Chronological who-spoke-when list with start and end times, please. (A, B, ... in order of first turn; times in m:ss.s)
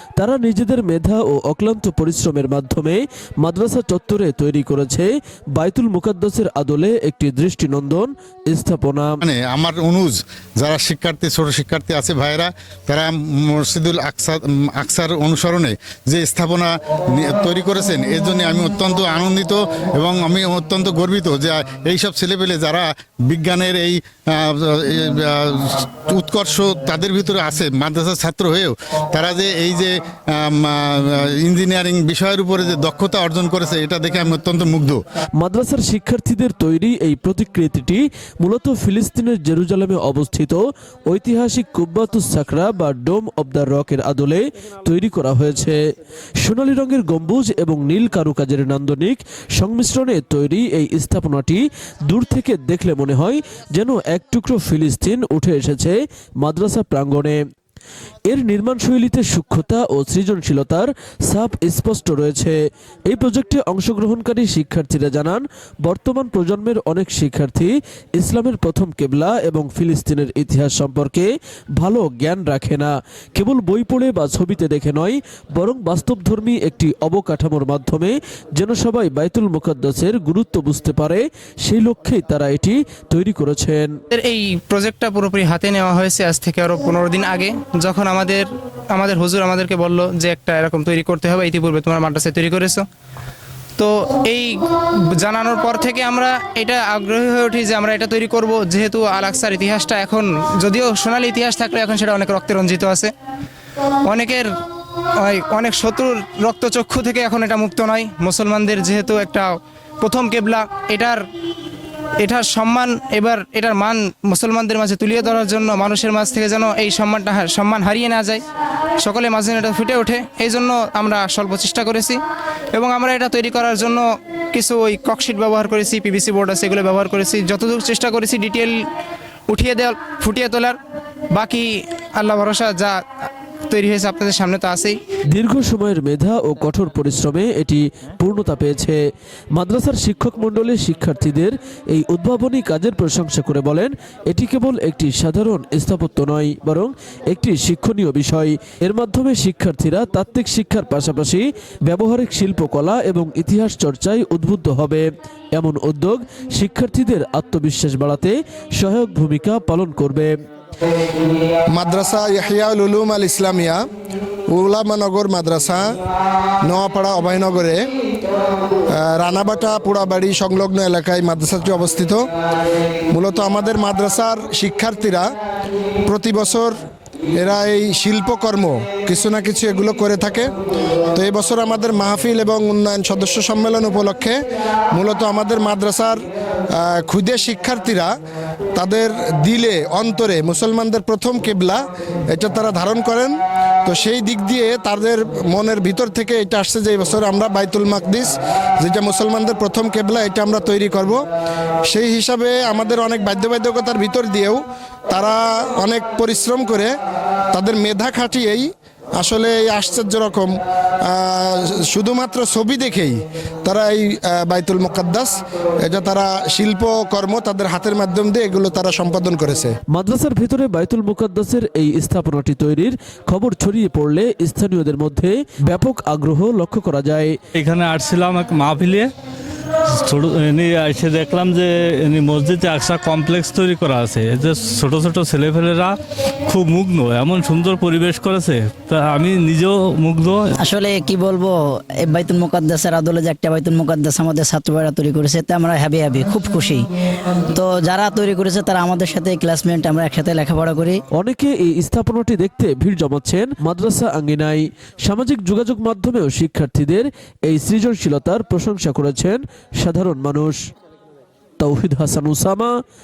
0:00.2-0:09.2 A
0:09.2-0:35.0 B
0:35.4-0:45.8 A
0:46.4-0:57.4 A
0:58.3-1:23.9 A
1:24.1-1:32.8 C
1:33.8-1:43.1 C
1:44.1-1:44.5 C
1:45.2-1:51.2 C
1:52.2-1:58.4 C
1:59.0-2:02.2 C
2:02.7-2:08.8 C
2:09.5-2:10.8 C
2:11.3-2:13.0 C
2:13.7-2:15.0 C
2:15.3-2:19.0 A
2:19.5-2:40.4 A
2:41.7-2:43.8 D
2:44.5-2:46.0 D
2:46.6-2:47.8 D
2:48.9-2:52.2 D
2:53.1-2:55.3 D
2:56.1-2:56.8 D
2:57.4-3:00.5 D
3:01.1-3:04.4 D
3:04.9-3:06.2 D
3:06.7-3:08.1 D
3:08.8-3:21.2 D
3:21.9-3:26.9 D
3:27.5-3:39.7 D
3:39.9-3:47.4 A
3:47.6-3:49.1 E
3:50.0-3:56.0 E
3:56.5-4:00.5 E
4:00.6-4:06.9 F
4:07.5-4:11.0 F
4:11.2-4:20.6 A
4:21.6-4:22.7 A